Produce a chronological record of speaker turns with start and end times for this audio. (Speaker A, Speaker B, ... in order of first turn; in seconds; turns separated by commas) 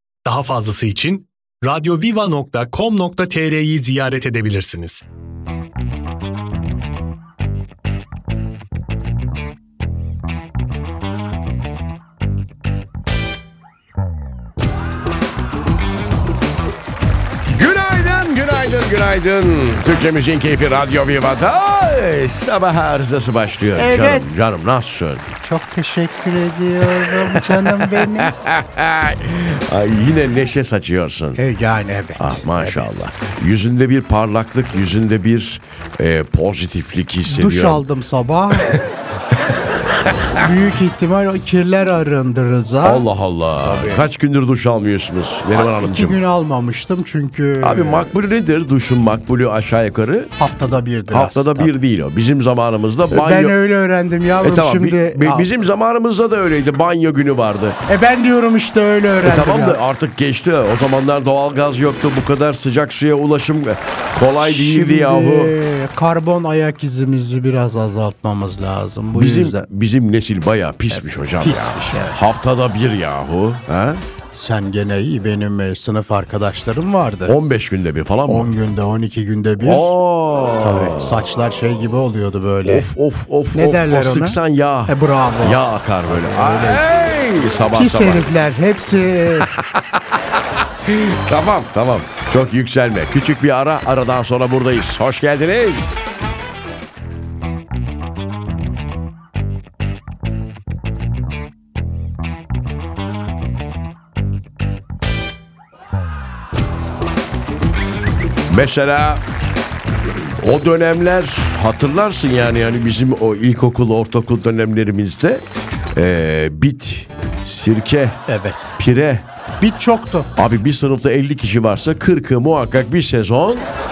Speaker A: 0.2-5.0, Speaker B: 17.5-25.3, Speaker C: 23.7-24.3, Speaker C: 25.4-28.3, Speaker B: 26.8-31.4, Speaker C: 31.3-32.9, Speaker B: 32.2-37.8, Speaker C: 37.2-38.8, Speaker B: 38.5-38.9, Speaker B: 39.5-40.3, Speaker C: 40.3-43.1, Speaker B: 42.8-46.2, Speaker C: 43.6-44.0, Speaker C: 45.5-48.1, Speaker B: 47.6-50.3, Speaker C: 50.4-51.7, Speaker B: 51.1-53.5, Speaker C: 53.1-55.5, Speaker B: 54.4-57.8, Speaker C: 57.9-59.8, Speaker B: 59.2-65.5, Speaker C: 64.4-69.6, Speaker B: 69.1-74.0, Speaker C: 70.9-72.2, Speaker C: 74.3-77.4, Speaker B: 77.2-78.5, Speaker C: 78.3-79.9, Speaker B: 79.6-81.2, Speaker C: 80.6-82.9, Speaker B: 82.6-88.3, Speaker C: 83.5-86.8, Speaker C: 87.7-89.5, Speaker B: 89.3-96.0, Speaker B: 108.5-109.2, Speaker B: 110.4-115.4, Speaker B: 115.9-118.2, Speaker C: 118.3-118.7, Speaker B: 118.8-119.2, Speaker C: 119.6-120.3, Speaker B: 120.3-123.7